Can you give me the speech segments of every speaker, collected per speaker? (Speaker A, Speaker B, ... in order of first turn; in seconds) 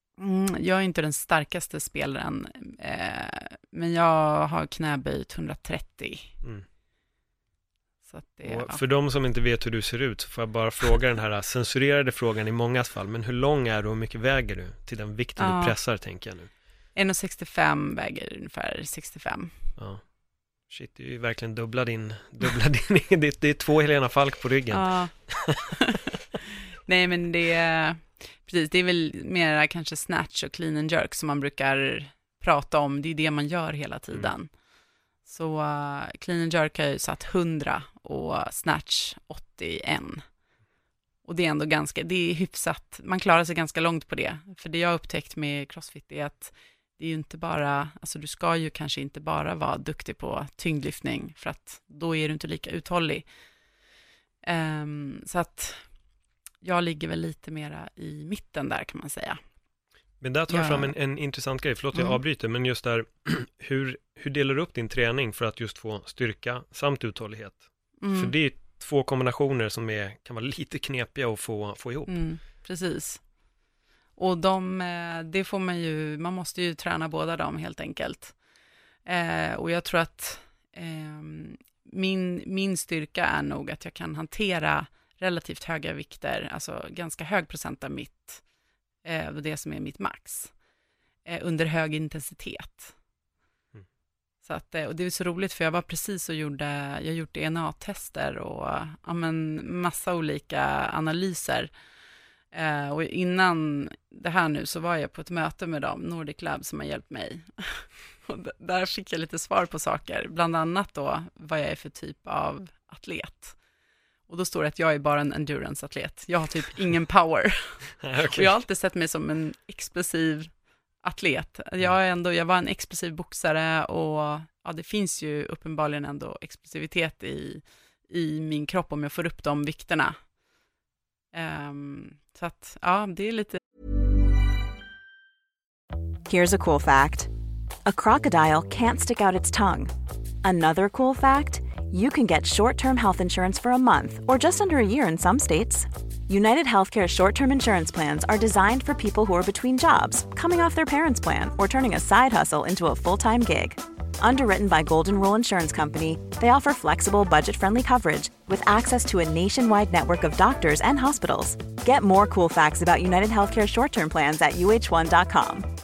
Speaker A: 0.2-6.3, 8.1-8.8, 15.4-15.8, 16.9-19.6, 24.7-26.0, 26.9-34.5, 35.2-40.2, 41.2-53.3, 54.5-55.9, 56.6-59.4, 60.5-60.9, 68.0-68.3, 72.1-73.2, 74.2-78.4, 79.1-88.4, 89.0-90.5, 91.3-93.0, 94.4-101.7, 102.5-113.6, 114.3-130.2, 131.3-133.6
Speaker B: 8.4-16.5, 19.8-20.0, 20.7-25.6, 60.2-72.2, 118.0-118.5
Speaker C: 136.3-137.3, 137.9-165.7